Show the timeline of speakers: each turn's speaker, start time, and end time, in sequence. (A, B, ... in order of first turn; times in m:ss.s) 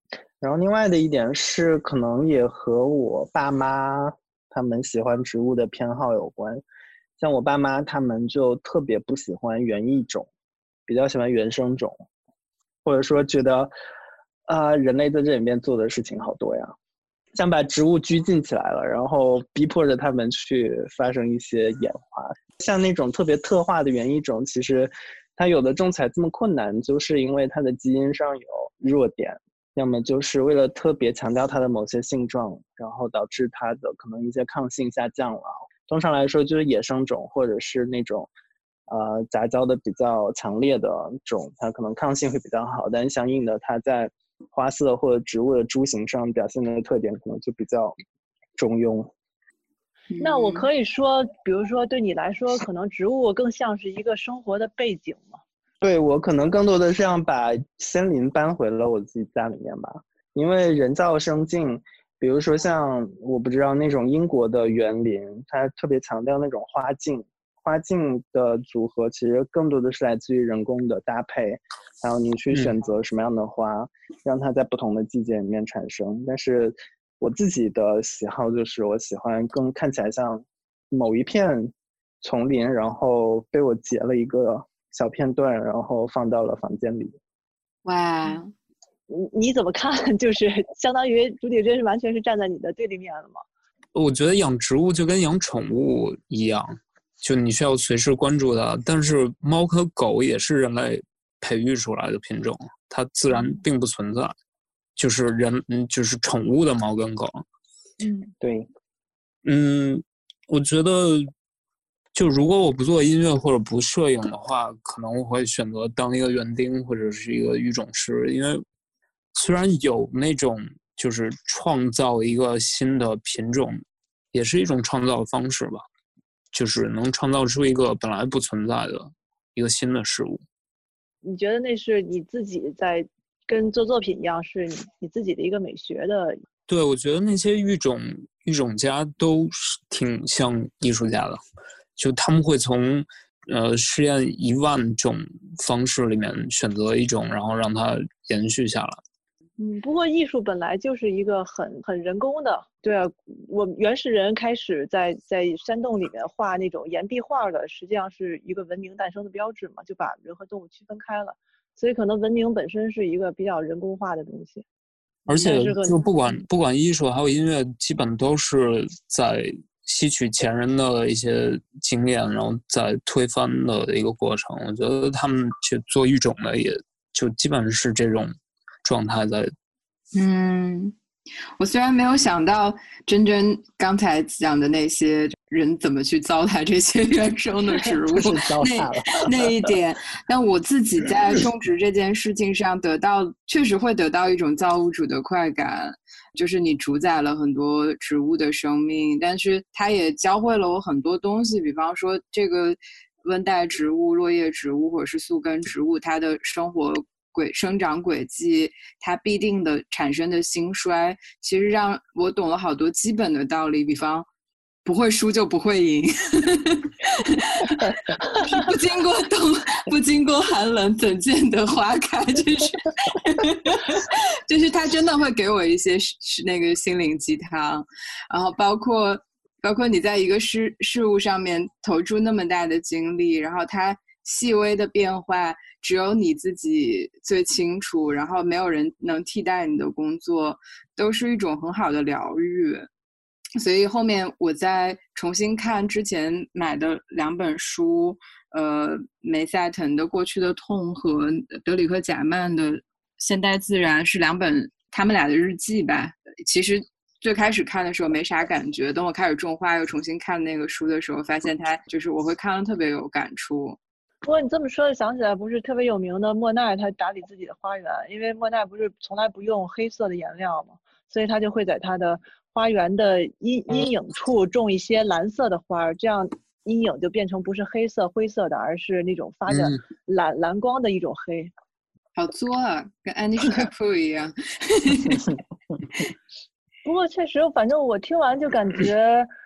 0:00.4-0:06.6 A
0:07.2-0:10.3 A
0:10.9-0:12.0 A
0:12.8-0:13.7 A
0:14.5-0:16.7 A
0:17.4-0:38.3 A
0:38.9-0:48.0 A
0:48.6-0:49.1 A
0:50.1-0:50.7 B
0:50.2-0:55.4 C
0:55.8-1:27.2 A
1:27.8-1:28.5 B
1:29.1-1:33.4 C
1:34.0-1:44.3 D
1:45.0-1:47.4 D
1:48.0-1:48.3 C
1:48.4-1:48.7 A
1:49.4-1:51.3 D
1:52.1-1:58.6 D
1:59.4-2:03.8 D
2:04.3-2:05.8 D
2:06.5-2:10.4 D
2:11.2-2:16.4 C
2:16.7-2:21.4 D
2:22.0-2:29.0 D
2:29.6-2:44.6 C
2:45.3-2:59.5 D
2:45.4-2:46.4 C
3:00.1-3:01.0 B
3:01.6-3:34.2 B
3:08.1-3:09.7 A
3:34.8-4:02.9 B
4:03.6-4:23.8 B
4:24.2-4:41.5 C
4:39.5-4:39.8 D
4:42.2-4:45.3 B
4:46.8-4:49.3 C